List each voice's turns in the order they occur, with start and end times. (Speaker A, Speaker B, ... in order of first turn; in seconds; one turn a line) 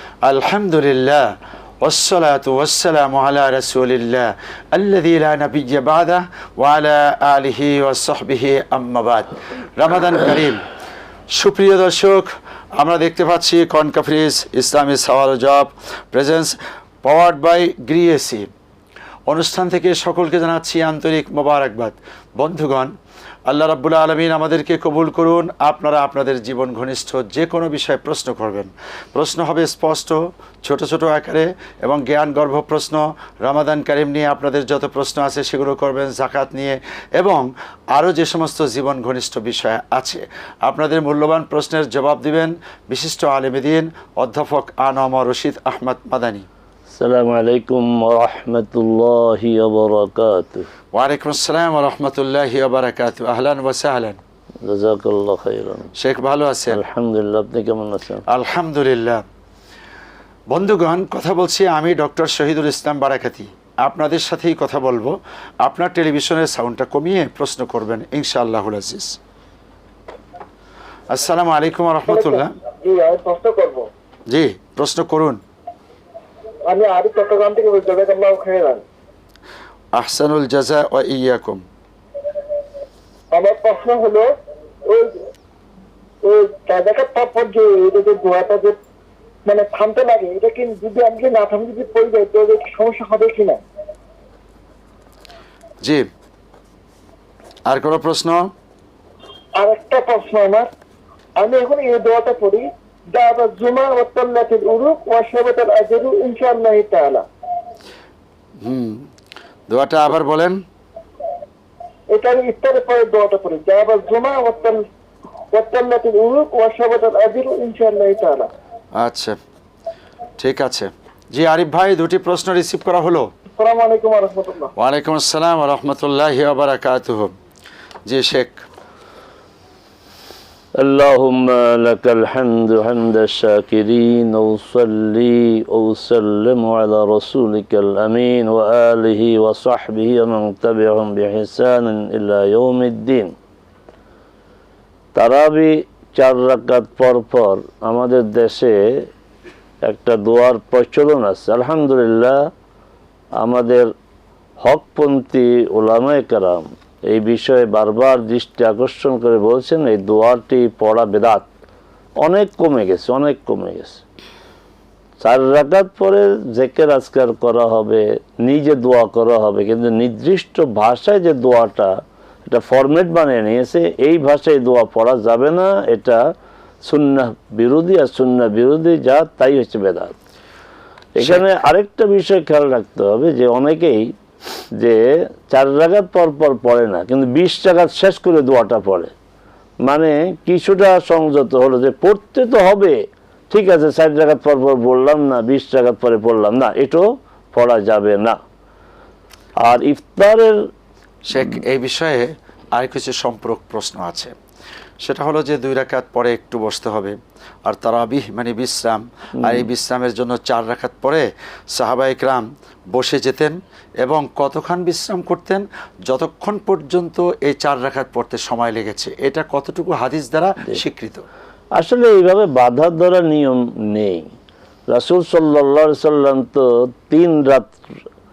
Speaker A: 0.2-1.3
Speaker A: 1.8-10.7
Speaker A: 11.3-18.5
Speaker A: 19.3-22.9
Speaker A: 23.5-46.5
Speaker B: 46.9-50.7
Speaker A: 50.9-54.2
Speaker B: 54.6-55.9
Speaker A: 56.0-56.8
Speaker B: 56.7-58.2
Speaker A: 58.3-59.2
Speaker A: 60.5-69.2
Speaker A: 71.1-72.5
Speaker C: 72.1-73.8
Speaker A: 74.3-75.4
Speaker C: 76.7-78.8
Speaker A: 79.9-81.6
Speaker C: 83.3-84.3
Speaker C: 84.9-85.2
Speaker C: 86.2-88.8
Speaker C: 89.5-93.6
Speaker A: 97.7-98.5
Speaker C: 99.6-100.7
Speaker C: 101.4-107.2
Speaker A: 108.6-109.1
Speaker A: 109.7-110.6
Speaker C: 112.1-114.8
Speaker C: 115.5-118.5
Speaker A: 119.0-119.3
Speaker A: 120.4-123.3
Speaker C: 123.5-124.7
Speaker A: 124.8-127.3
Speaker A: 128.1-128.6
Speaker B: 130.8-143.3
Speaker B: 145.1-149.1
Speaker B: 149.8-152.5
Speaker B: 153.4-153.9
Speaker B: 154.6-161.5
Speaker B: 162.2-164.0
Speaker B: 165.2-176.2
Speaker B: 176.8-180.2
Speaker B: 181.2-184.1
Speaker A: 181.2-181.4
Speaker B: 184.7-189.1
Speaker B: 189.8-198.4
Speaker B: 199.6-200.7
Speaker A: 201.3-204.3
Speaker A: 205.0-221.2
Speaker B: 209.4-209.7
Speaker B: 221.8-224.3
Speaker B: 224.9-227.8